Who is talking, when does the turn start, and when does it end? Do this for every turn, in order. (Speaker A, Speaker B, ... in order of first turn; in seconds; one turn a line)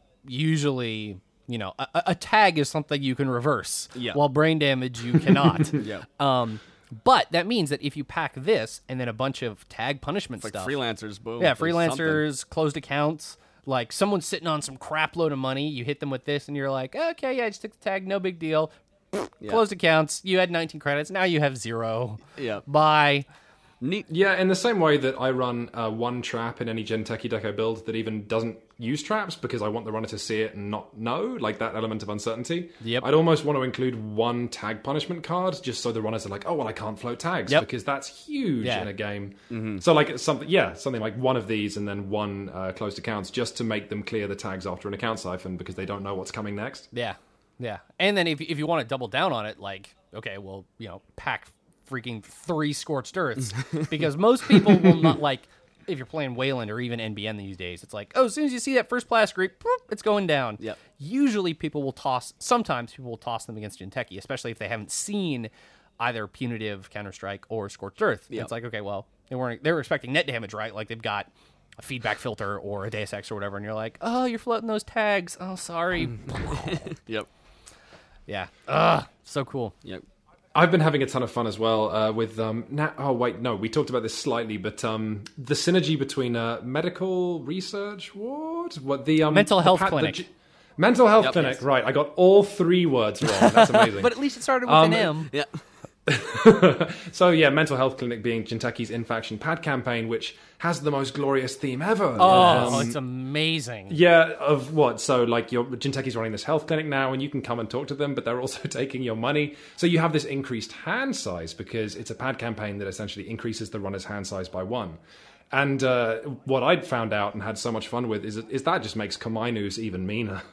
Speaker A: 0.2-10.8
Speaker B: 4.0-4.2
Speaker B: 5.7-6.1
Speaker B: 10.4-12.2
Speaker A: 11.4-23.3
Speaker B: 22.4-22.6
Speaker B: 23.8-24.1
Speaker C: 24.1-46.9
Speaker A: 32.8-33.1
Speaker A: 38.6-38.9
Speaker B: 39.5-39.8
Speaker A: 46.9-76.9
Speaker B: 54.5-55.0
Speaker B: 76.3-77.3
Speaker A: 78.3-79.7
Speaker C: 80.5-95.2
Speaker A: 89.3-90.2
Speaker A: 93.4-95.3
Speaker B: 95.3-95.6
Speaker C: 96.1-103.0
Speaker A: 102.2-104.0
Speaker B: 102.2-102.9
Speaker C: 103.9-115.0
Speaker C: 115.5-120.4